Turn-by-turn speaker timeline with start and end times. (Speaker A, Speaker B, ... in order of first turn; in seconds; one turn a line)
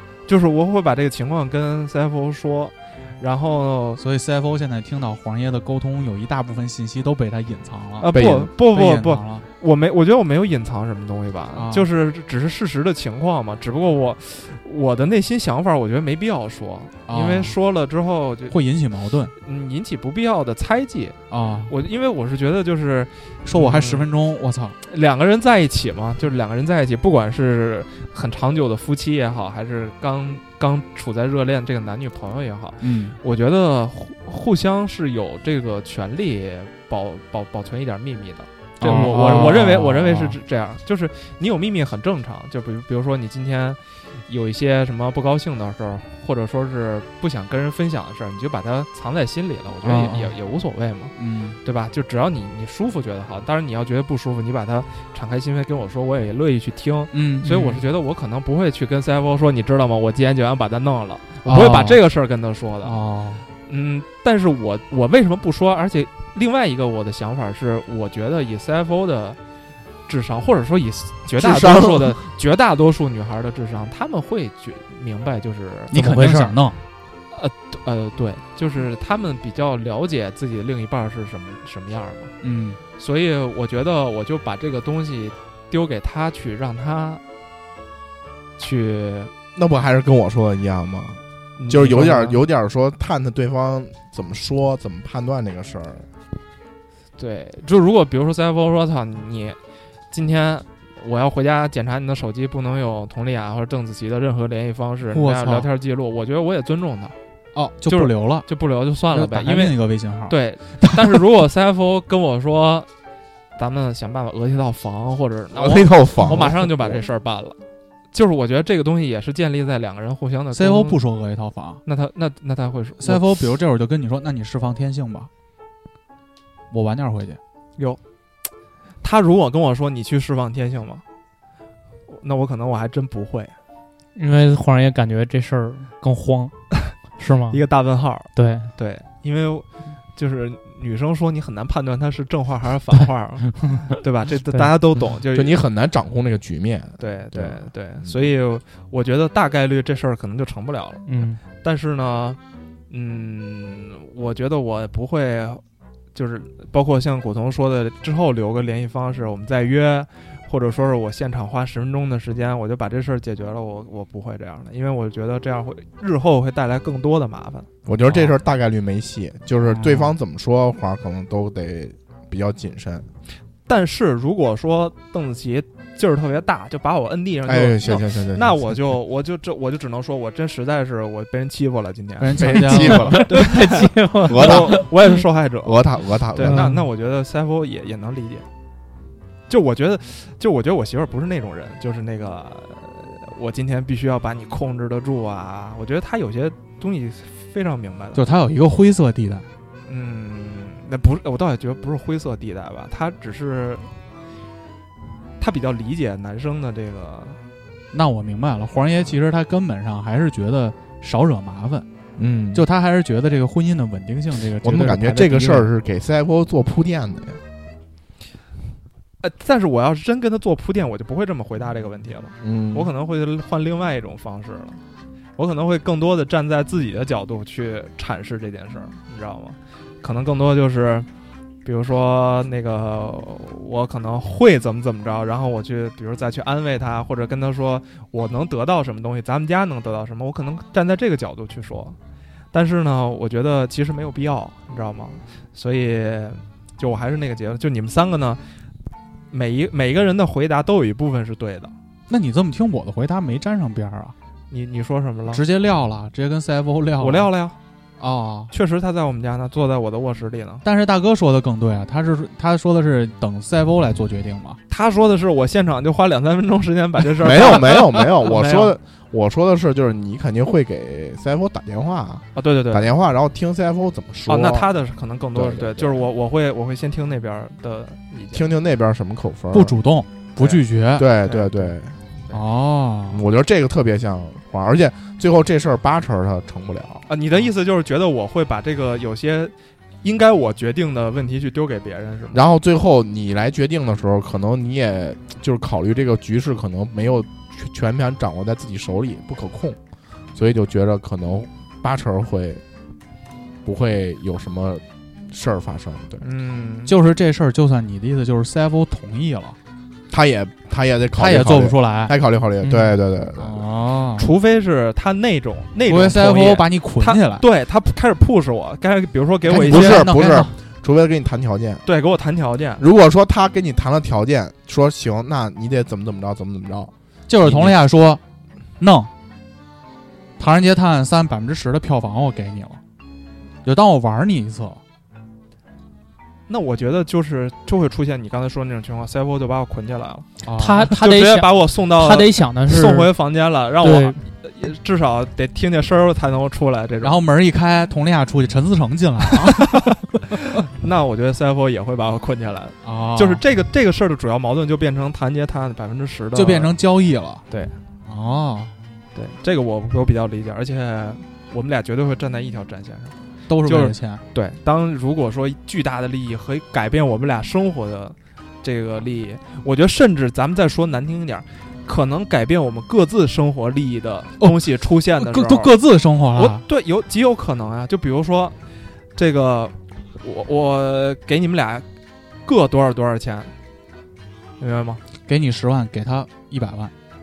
Speaker A: 0.3-4.0
Speaker B: 4.0-9.4
Speaker A: 8.0-18.6
Speaker C: 8.1-8.5
Speaker B: 11.5-11.9
Speaker B: 17.1-17.6
Speaker B: 18.5-19.3
Speaker A: 19.4-21.2
Speaker B: 21.3-21.7
Speaker A: 21.7-24.1
Speaker B: 23.4-24.8
Speaker A: 24.9-51.1
Speaker B: 32.8-33.2
Speaker B: 38.8-40.4
Speaker B: 49.8-50.4
Speaker B: 51.2-51.6
Speaker A: 51.6-63.0
Speaker B: 57.1-57.8
Speaker B: 61.4-62.0
Speaker B: 62.8-63.5
Speaker A: 63.7-69.4
Speaker A: 70.1-76.0
Speaker C: 71.3-72.2
Speaker B: 75.9-76.8
Speaker D: 75.9-76.5
Speaker A: 77.3-82.3
Speaker B: 82.4-82.8
Speaker A: 83.0-87.2
Speaker A: 88.6-89.3
Speaker C: 89.5-96.0
Speaker A: 91.6-92.4
Speaker A: 97.2-99.6
Speaker A: 100.1-107.2
Speaker B: 105.1-105.7
Speaker B: 107.5-108.5
Speaker A: 107.8-112.9
Speaker B: 109.1-111.2
Speaker A: 113.6-117.6
Speaker C: 115.5-117.0
Speaker A: 118.1-121.0
Speaker B: 120.5-121.8
Speaker A: 121.8-123.2
Speaker B: 123.0-125.3
Speaker B: 126.7-127.4
Speaker A: 129.0-131.0
Speaker A: 132.1-133.5
Speaker D: 134.2-137.6
Speaker A: 137.5-145.6
Speaker D: 138.3-138.7
Speaker C: 145.3-148.2
Speaker A: 147.0-152.4
Speaker D: 151.1-151.4
Speaker A: 152.9-155.6
Speaker A: 156.1-167.7
Speaker C: 167.8-173.1
Speaker B: 168.1-168.3
Speaker B: 169.7-170.1
Speaker A: 173.7-188.4
Speaker C: 177.4-178.7
Speaker B: 182.2-183.2
Speaker C: 182.4-183.3
Speaker D: 182.8-185.0
Speaker C: 184.2-184.9
Speaker C: 185.6-186.7
Speaker A: 189.5-198.2
Speaker B: 198.1-199.4
Speaker A: 199.9-203.9
Speaker A: 205.4-207.4
Speaker B: 207.9-211.8
Speaker C: 212.2-212.6
Speaker B: 212.5-215.7
Speaker C: 214.6-217.4
Speaker A: 219.2-224.8
Speaker C: 222.4-222.9
Speaker A: 225.4-231.1
Speaker A: 231.6-242.0
Speaker A: 242.5-248.4
Speaker A: 249.3-251.7
Speaker B: 252.1-254.1
Speaker A: 254.5-255.4
Speaker B: 255.3-257.3
Speaker A: 257.0-257.6
Speaker B: 258.0-258.5
Speaker A: 258.5-260.6
Speaker B: 260.6-264.6
Speaker A: 264.7-268.8
Speaker C: 267.2-274.7
Speaker A: 272.4-272.9
Speaker A: 274.3-278.5
Speaker C: 275.3-276.1
Speaker C: 278.3-279.7
Speaker B: 279.5-281.1
Speaker C: 281.0-282.0
Speaker A: 281.2-282.4
Speaker B: 282.3-283.2
Speaker C: 283.1-287.0
Speaker A: 287.1-292.4
Speaker C: 292.3-299.8
Speaker C: 300.3-302.6
Speaker C: 303.6-306.2
Speaker A: 306.2-306.9
Speaker B: 306.9-309.6
Speaker C: 310.1-313.6
Speaker B: 311.1-312.1
Speaker D: 312.6-312.9
Speaker B: 313.3-314.3
Speaker A: 314.2-320.2
Speaker B: 315.8-317.4
Speaker B: 319.5-320.5
Speaker C: 319.5-321.8
Speaker A: 321.9-322.8
Speaker C: 322.8-327.7
Speaker B: 327.3-328.2
Speaker B: 328.8-329.1
Speaker B: 330.4-332.8
Speaker B: 333.6-334.8
Speaker A: 336.5-340.3
Speaker B: 340.4-340.9
Speaker D: 340.6-343.1
Speaker A: 340.9-347.2
Speaker D: 343.8-344.2
Speaker B: 347.0-350.4
Speaker A: 349.4-349.8
Speaker A: 350.6-356.8
Speaker B: 352.8-353.4
Speaker B: 356.3-357.4
Speaker A: 357.5-357.7
Speaker B: 358.1-358.7
Speaker A: 359.1-375.8
Speaker B: 363.5-364.2
Speaker B: 374.4-376.6
Speaker A: 376.3-378.5
Speaker A: 379.1-381.8
Speaker A: 382.4-383.5
Speaker A: 384.6-385.0
Speaker B: 385.3-386.9